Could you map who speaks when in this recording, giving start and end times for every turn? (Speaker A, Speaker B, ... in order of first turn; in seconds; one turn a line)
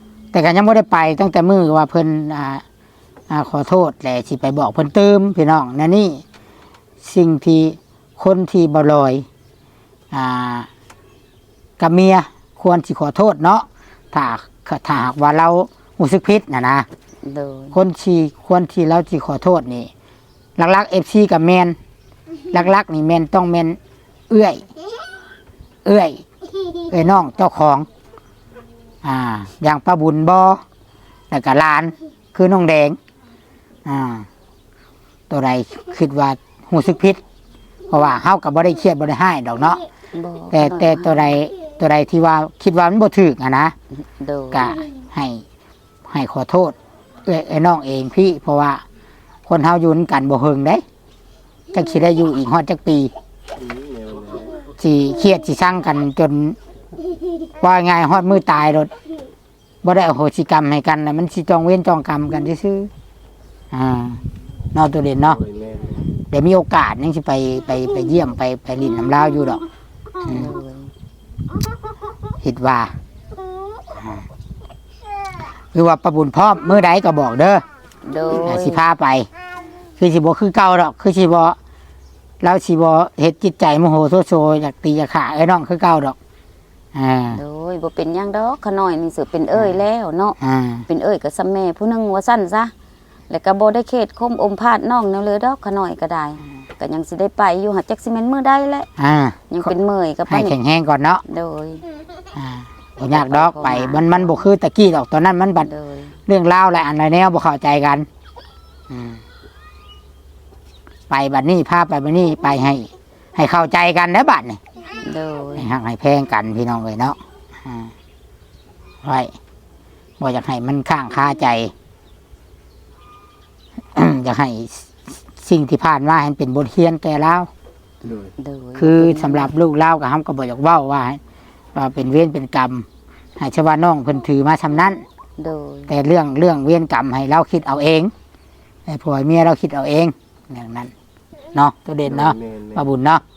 Speaker A: 0.3-2.6
Speaker A: 3.3-6.2
Speaker A: 7.0-9.2
Speaker A: 10.1-10.7
Speaker A: 11.8-16.9
Speaker B: 17.2-17.8
Speaker A: 17.7-19.9
Speaker A: 20.6-21.8
Speaker A: 22.5-23.8
Speaker A: 24.3-24.7
Speaker A: 25.8-26.2
Speaker A: 26.9-27.9
Speaker A: 29.0-30.6
Speaker A: 31.3-33.0
Speaker A: 33.8-34.3
Speaker A: 35.3-37.2
Speaker A: 37.9-39.8
Speaker B: 40.1-41.3
Speaker A: 40.5-43.7
Speaker B: 44.0-44.7
Speaker A: 44.5-45.4
Speaker A: 46.1-46.7
Speaker A: 47.2-48.8
Speaker A: 49.5-50.8
Speaker A: 51.7-53.1
Speaker C: 53.6-54.6
Speaker A: 54.8-56.6
Speaker A: 57.6-58.9
Speaker A: 59.8-62.9
Speaker A: 63.7-64.2
Speaker A: 64.7-65.4
Speaker C: 65.2-66.1
Speaker A: 66.3-69.6
Speaker B: 70.2-70.9
Speaker A: 70.2-70.5
Speaker A: 72.4-73.0
Speaker A: 74.0-74.2
Speaker A: 75.7-77.6
Speaker B: 78.0-78.8
Speaker A: 78.4-79.3
Speaker A: 80.0-81.6
Speaker A: 82.4-86.2
Speaker A: 86.9-87.4
Speaker B: 87.3-92.7
Speaker A: 90.4-90.8
Speaker B: 93.3-98.9
Speaker A: 99.0-99.7
Speaker B: 99.5-100.5
Speaker A: 100.3-101.2
Speaker B: 101.2-101.8
Speaker A: 102.3-105.7
Speaker B: 103.1-104.5
Speaker B: 105.6-106.1
Speaker A: 106.3-108.1
Speaker A: 108.9-109.2
Speaker A: 111.1-114.6
Speaker B: 115.0-115.7
Speaker A: 115.6-117.9
Speaker A: 119.0-119.3
Speaker A: 120.2-121.7
Speaker A: 123.9-127.5
Speaker C: 128.0-128.3
Speaker B: 128.4-129.5
Speaker A: 128.8-131.2
Speaker A: 131.7-132.8
Speaker A: 133.4-135.0
Speaker B: 135.4-135.9
Speaker A: 135.9-138.1
Speaker A: 138.9-140.9
Speaker A: 141.5-143.2
Speaker C: 142.0-142.8